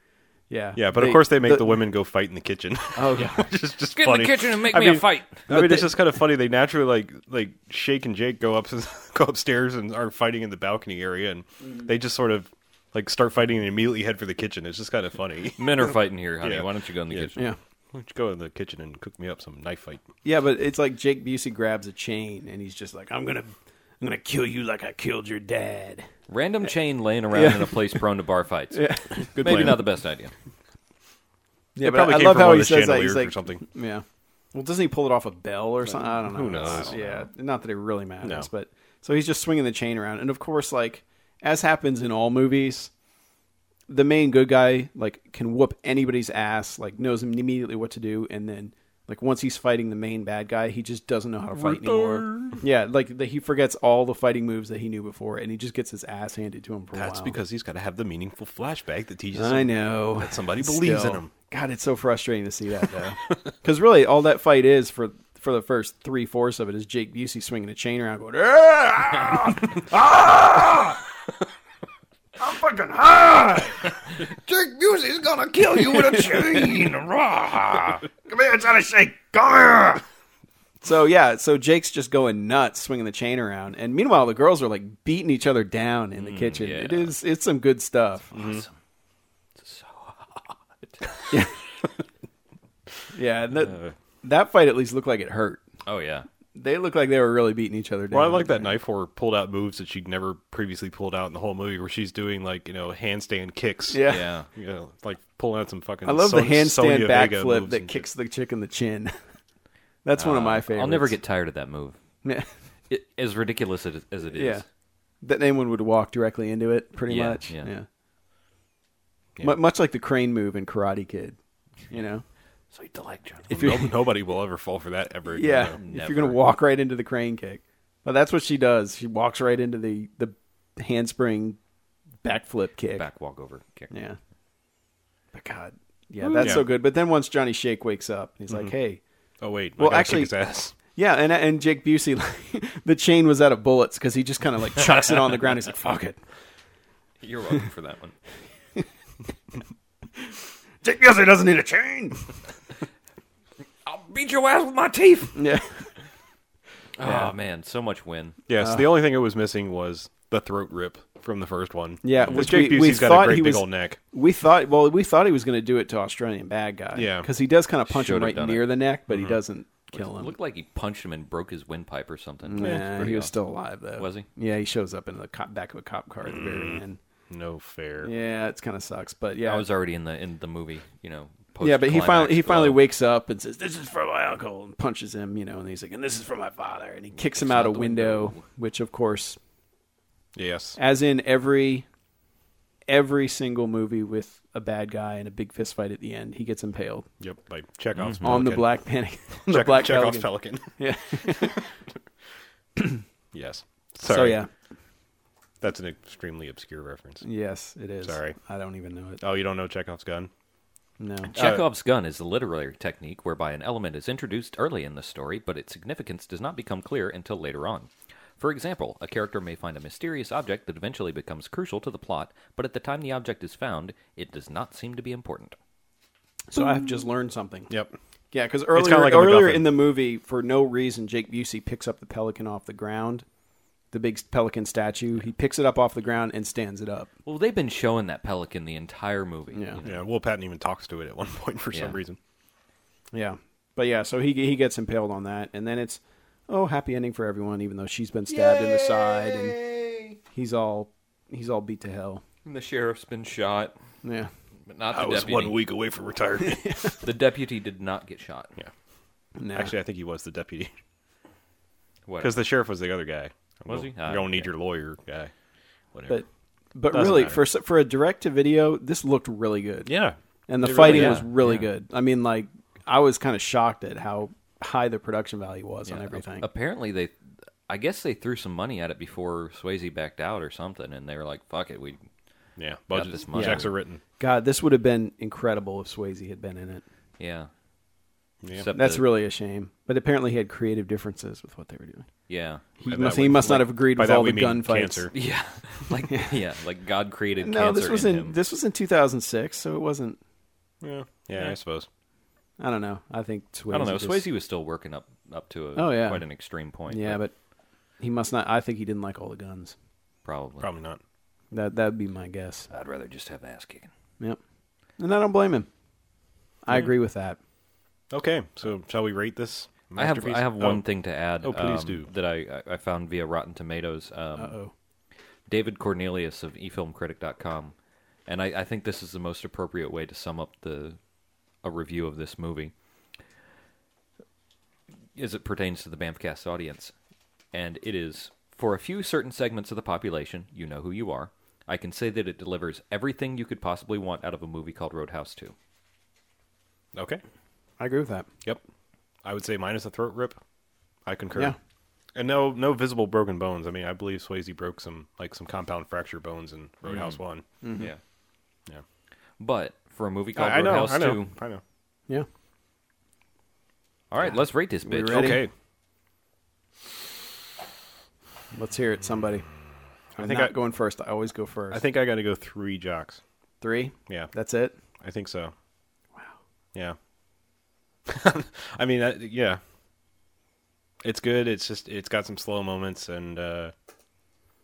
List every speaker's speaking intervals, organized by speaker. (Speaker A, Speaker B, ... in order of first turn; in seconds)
Speaker A: 0.5-1.8, 3.0-3.5, 5.5-5.9, 20.2-26.1, 27.3-28.1, 28.7-29.6, 31.8-42.9, 43.9-57.4, 59.4-71.0, 72.4-73.8, 76.0-76.6, 78.3-80.0, 80.8-88.3, 91.3-91.6, 93.1-95.6, 96.5-98.7, 103.9-104.2, 106.0-109.2, 110.0-111.2, 114.3-114.6, 115.2-117.9, 119.4-121.4, 121.9-122.2, 123.5-124.0, 125.3-131.6, 132.2-133.1, 133.9-134.2, 135.3-139.0, 139.8-146.2, 150.8-152.2, 155.3-155.9, 157.0-157.3, 158.6-158.9, 162.0-170.3, 172.5-177.0, 178.0-179.7, 181.6-189.4, 190.8-191.9, 192.9-197.1, 198.2-201.6, 204.1-204.5, 207.2-209.2, 211.0-211.3, 226.5-227.7, 228.3-233.2, 233.9-237.1, 239.5-239.8, 243.1-249.6, 250.3-252.2, 254.0-254.3, 256.5-256.9, 259.4-259.7, 266.1-269.9, 270.5-276.5, 283.3-283.7, 284.2-286.8, 288.7-292.1, 292.8-295.1, 297.4-300.2, 302.6-304.2, 305.8-306.3, 306.9-307.3, 308.0-309.8, 311.5-312.7, 315.0-315.7, 316.6-317.4, 324.4-324.7, 347.8-348.3, 357.6-357.9, 364.8-365.4, 368.5-369.5, 370.2-371.8, 373.6-374.7
Speaker B: 0.8-17.3, 17.9-20.0, 29.3-29.8, 31.8-33.6, 36.2-37.0, 38.2-38.5, 51.5-52.6, 56.9-61.3, 74.5-76.9, 88.3-88.7, 98.1-108.1, 123.5-125.8, 136.4-136.7, 139.4-140.7, 158.5-164.0, 166.9-167.3, 169.1-169.4, 176.3-178.1, 190.3-190.8, 197.2-198.8, 199.4-201.7, 203.3-204.4, 205.6-207.2, 208.0-208.4, 209.2-210.3, 211.3-211.7, 227.7-228.0, 228.7-229.7, 239.8-242.2, 254.9-256.8, 259.5-260.7, 262.2-265.3, 265.9-266.2, 266.9-267.4, 269.9-271.2, 282.6-284.0, 288.4-288.7, 292.9-295.1, 300.8-301.9, 310.6-311.0, 318.1-320.8, 321.4-322.1, 346.9-347.2, 349.2-350.4, 351.1-351.6, 352.1-357.4, 360.4-361.6, 365.1-365.5, 370.1-370.5, 371.7-373.2, 375.0-375.5, 378.1-379.6, 381.0-383.7
Speaker C: 3.9-5.5, 15.6-17.4, 26.3-30.3, 36.6-37.2, 75.1-78.0, 86.2-87.1, 88.3-88.8, 89.6-91.1, 95.8-96.3, 104.0-104.5, 110.2-112.0, 112.9-114.6, 117.1-117.7, 122.7-123.5, 125.8-126.4, 132.9-133.9, 136.2-136.7, 147.2-148.2, 153.8-155.4, 157.0-158.4, 167.9-168.8, 169.9-173.3, 174.0-174.3, 179.4-182.8, 187.2-188.4, 198.0-198.3, 211.3-225.6, 237.2-240.0, 248.4-250.2, 252.4-253.8, 254.7-255.6, 257.0-258.5, 262.1-262.4, 263.7-264.5, 270.8-271.7, 275.9-277.1, 277.7-282.0, 282.9-283.7, 287.2-287.5, 288.5-289.1, 292.3-292.6, 295.1-298.4, 303.7-307.2, 310.2-310.7, 312.7-313.9, 319.9-324.6, 325.5-327.8, 328.3-331.0, 331.6-332.7, 335.1-336.9, 337.5-345.5, 359.4-361.4, 364.1-365.4